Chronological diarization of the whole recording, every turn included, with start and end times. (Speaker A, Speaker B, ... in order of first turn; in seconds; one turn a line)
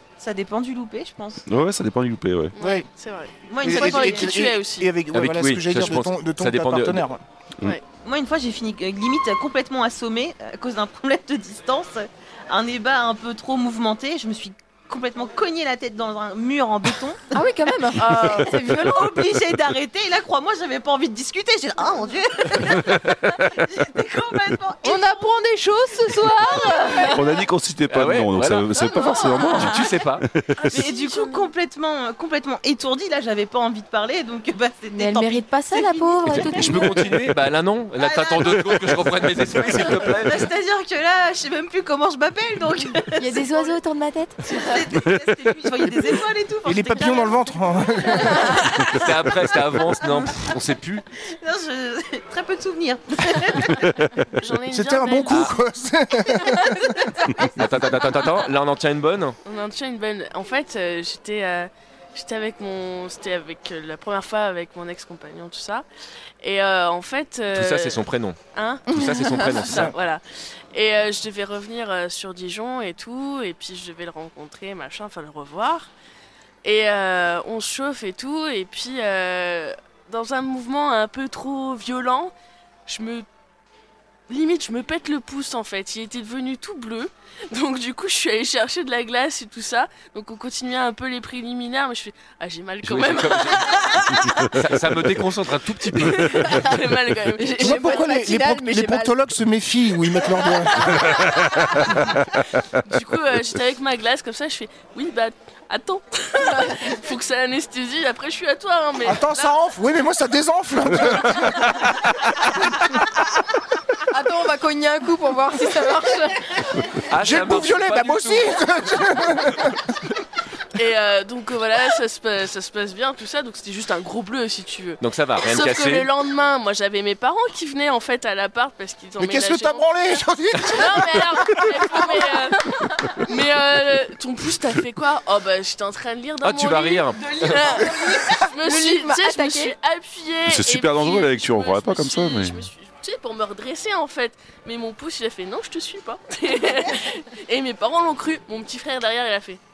Speaker A: 0.2-1.4
Speaker B: 1.4-2.5
Speaker C: 2.5-4.9
Speaker D: 2.6-2.9
Speaker A: 3.4-4.4
Speaker D: 3.6-7.2
Speaker E: 5.1-7.1
Speaker A: 8.0-17.2
Speaker F: 17.3-19.2
Speaker A: 18.0-25.4
Speaker G: 24.8-27.3
Speaker A: 26.4-27.1
Speaker B: 27.1-30.5
Speaker E: 27.9-28.8
Speaker G: 28.8-29.6
Speaker E: 29.5-30.2
Speaker C: 30.6-31.5
Speaker A: 30.7-37.3
Speaker F: 34.9-37.1
Speaker E: 36.3-40.5
Speaker A: 38.0-43.7
Speaker F: 43.1-44.7
Speaker A: 44.4-48.4
Speaker D: 46.6-48.9
Speaker E: 48.9-51.0
Speaker A: 51.3-53.9
Speaker C: 54.4-55.5
Speaker D: 54.7-57.5
Speaker E: 57.5-59.4
Speaker C: 59.4-65.9
Speaker C: 66.4-75.9
Speaker E: 67.5-69.9
Speaker G: 68.9-69.5
Speaker D: 69.7-69.9
Speaker C: 76.6-82.3
Speaker C: 82.9-83.3
Speaker C: 84.3-94.7
Speaker E: 92.8-96.8
Speaker C: 95.8-98.2
Speaker G: 97.4-99.1
Speaker D: 97.6-101.5
Speaker C: 101.2-101.6
Speaker C: 102.8-109.6
Speaker D: 109.0-113.2
Speaker F: 114.1-116.5
Speaker E: 117.1-118.6
Speaker D: 117.1-120.0
Speaker C: 120.8-129.8
Speaker E: 125.0-126.1
Speaker D: 129.2-131.9
Speaker C: 130.7-149.6
Speaker E: 136.4-137.8
Speaker G: 138.2-139.6
Speaker F: 138.7-139.7
Speaker B: 140.4-142.7